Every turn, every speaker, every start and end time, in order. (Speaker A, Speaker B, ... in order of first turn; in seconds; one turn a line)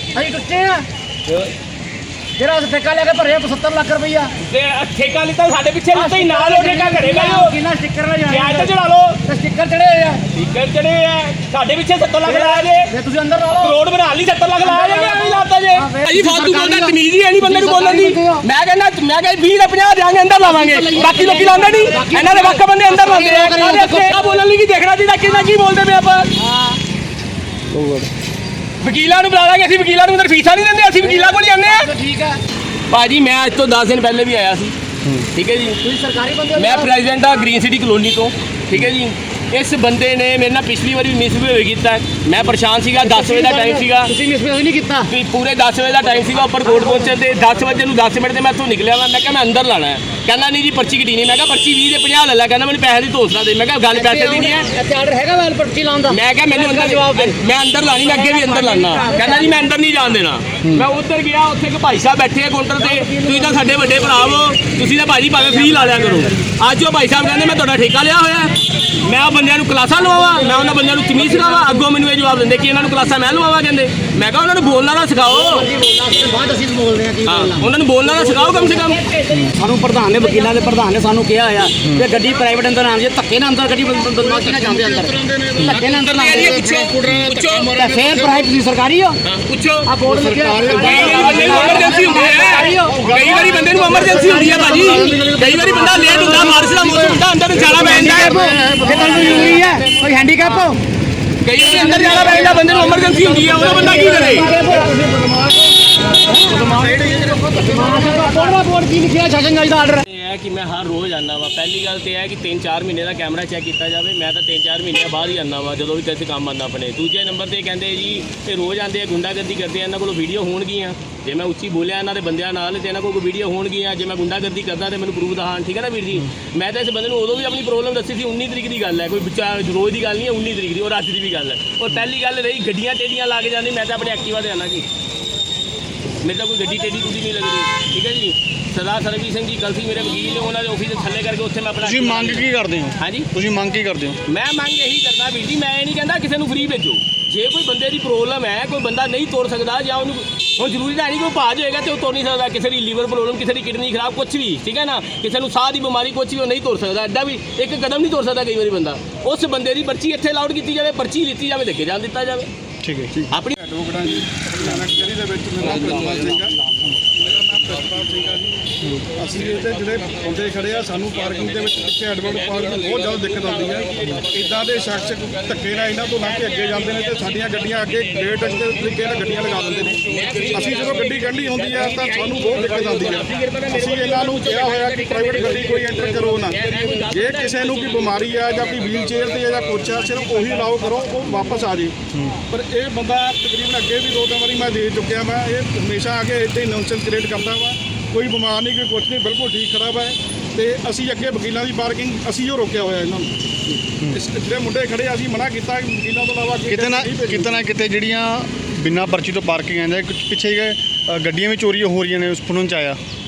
Speaker A: 0.1-0.9
Speaker A: 2.4-4.3
Speaker B: 4.4-7.5
Speaker A: 5.9-8.7
Speaker B: 8.3-9.2
Speaker A: 9.2-10.2
Speaker B: 10.3-12.9
Speaker A: 12.2-13.8
Speaker B: 13.5-26.4
Speaker A: 14.6-18.4
Speaker A: 20.4-24.2
Speaker A: 26.4-26.8
Speaker B: 28.8-31.9
Speaker A: 31.0-32.4
Speaker B: 32.9-34.7
Speaker B: 35.3-35.8
Speaker A: 35.8-36.9
Speaker B: 36.5-44.1
Speaker A: 43.0-45.1
Speaker B: 45.1-54.7
Speaker A: 53.9-57.4
Speaker B: 56.1-75.7
Speaker A: 58.0-59.6
Speaker A: 62.9-63.7
Speaker A: 65.8-66.2
Speaker A: 75.3-86.9
Speaker B: 77.2-79.1
Speaker C: 79.3-79.5
Speaker C: 81.8-82.1
Speaker C: 84.1-88.5
Speaker B: 85.9-87.8
Speaker A: 87.6-89.2
Speaker B: 89.2-89.9
Speaker A: 89.8-93.2
Speaker C: 90.0-91.9
Speaker B: 90.7-98.6
Speaker C: 92.8-99.8
Speaker A: 94.1-95.4
Speaker A: 96.0-96.6
Speaker A: 97.7-100.8
Speaker B: 101.4-104.6
Speaker A: 101.6-110.0
Speaker C: 106.5-107.4
Speaker B: 110.0-134.8
Speaker B: 136.2-143.3
Speaker C: 141.8-144.2
Speaker B: 144.2-162.5
Speaker C: 162.8-163.2
Speaker D: 163.2-168.6
Speaker B: 163.3-163.6
Speaker B: 165.9-166.2
Speaker C: 168.8-169.1
Speaker D: 169.1-191.9
Speaker B: 171.6-174.7
Speaker B: 175.9-178.4
Speaker B: 180.1-188.3
Speaker C: 192.1-192.4
Speaker D: 192.5-203.3
Speaker D: 204.1-207.6
Speaker C: 206.7-213.0